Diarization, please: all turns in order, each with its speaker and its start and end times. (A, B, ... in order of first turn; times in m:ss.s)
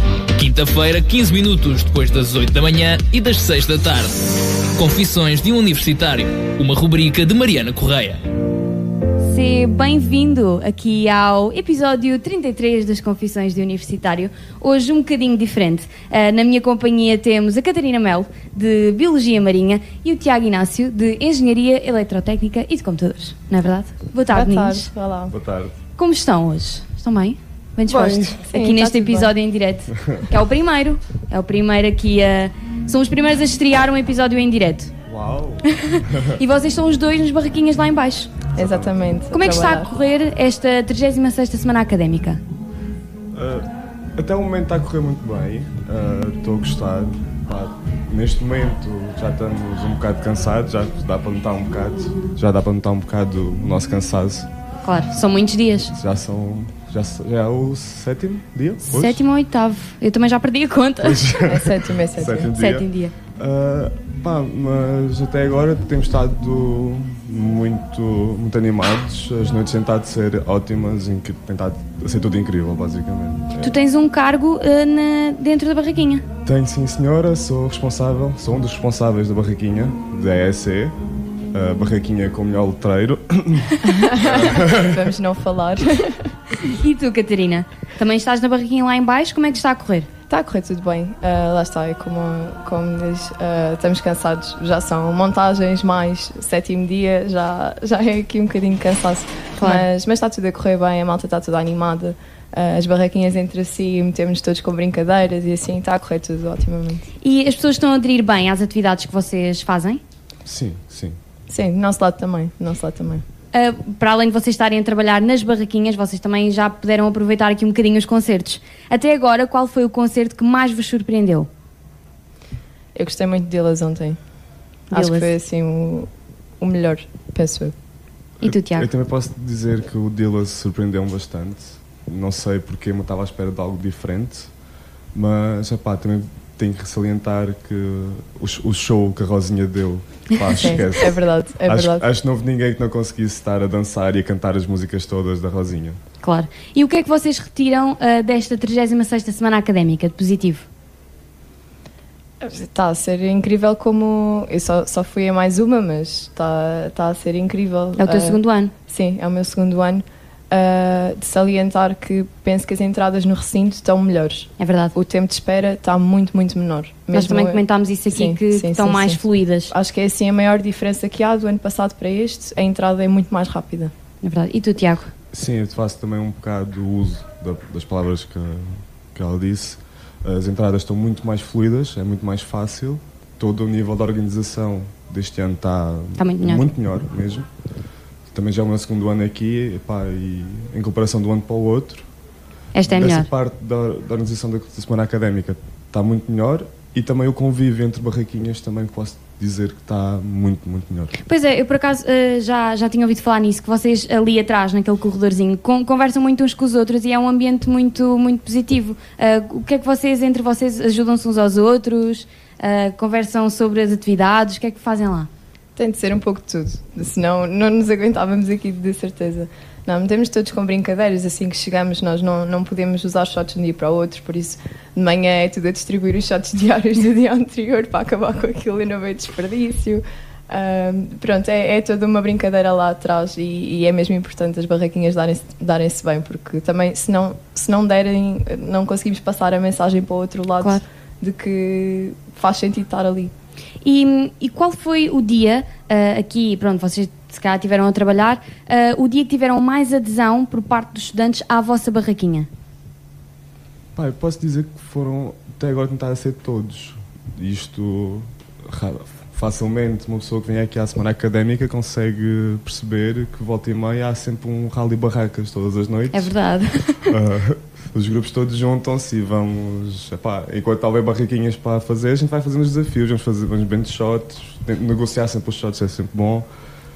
0:00.3-0:08.2 A
0:09.2-0:24.9 B
0:24.3-0:25.3 C
0:25.3-0:25.8 D
0:26.0-0:34.9 B
0:27.9-0:29.3 C
0:27.9-0:28.2 D
0:35.1-0:36.4 D
0:35.7-0:38.4 B
0:38.6-0:38.9 D
0:38.6-0:39.9 C
0:39.3-0:42.4 B
0:43.3-0:54.5 D
0:54.8-0:55.9 B
0:55.9-0:59.2 D
0:58.9-1:01.2 B
1:01.0-1:13.8 D
1:01.4-1:02.5 C
1:02.5-1:03.1 B
1:13.6-1:16.2 B
1:16.4-1:21.0 D
1:21.5-1:25.0 D
1:23.8-1:26.2 C
1:26.6-1:30.1 B
1:30.3-1:47.0 C
1:39.6-1:39.9 B
1:47.2-1:50.0 B
1:50.4-1:51.2 D
1:51.5-1:53.2 C
1:53.5-2:01.5 B
2:02.9-2:04.2 C
2:04.9-2:06.1 C
2:04.9-2:05.3 B
2:06.6-2:07.7 C
2:08.4-2:08.9 B
2:08.4-2:14.5 D
2:15.1-2:26.0 D
2:20.6-2:22.0 C
2:26.2-2:30.6 B
2:32.4-2:49.2 C
2:38.0-2:38.7 B
2:44.6-2:44.9 B
2:47.1-2:49.7 B
2:49.7-2:53.9 C
2:54.2-2:55.1 B
2:55.3-3:07.5 D
3:06.2-3:06.7 B
3:08.3-3:12.0 D
3:12.7-3:13.3 B
3:12.8-3:21.2 D
3:21.2-3:35.3 B
3:35.8-4:03.3 C
4:03.8-4:12.5 B
4:13.9-4:26.3 D
4:26.1-4:27.1 B
4:27.1-4:36.4 D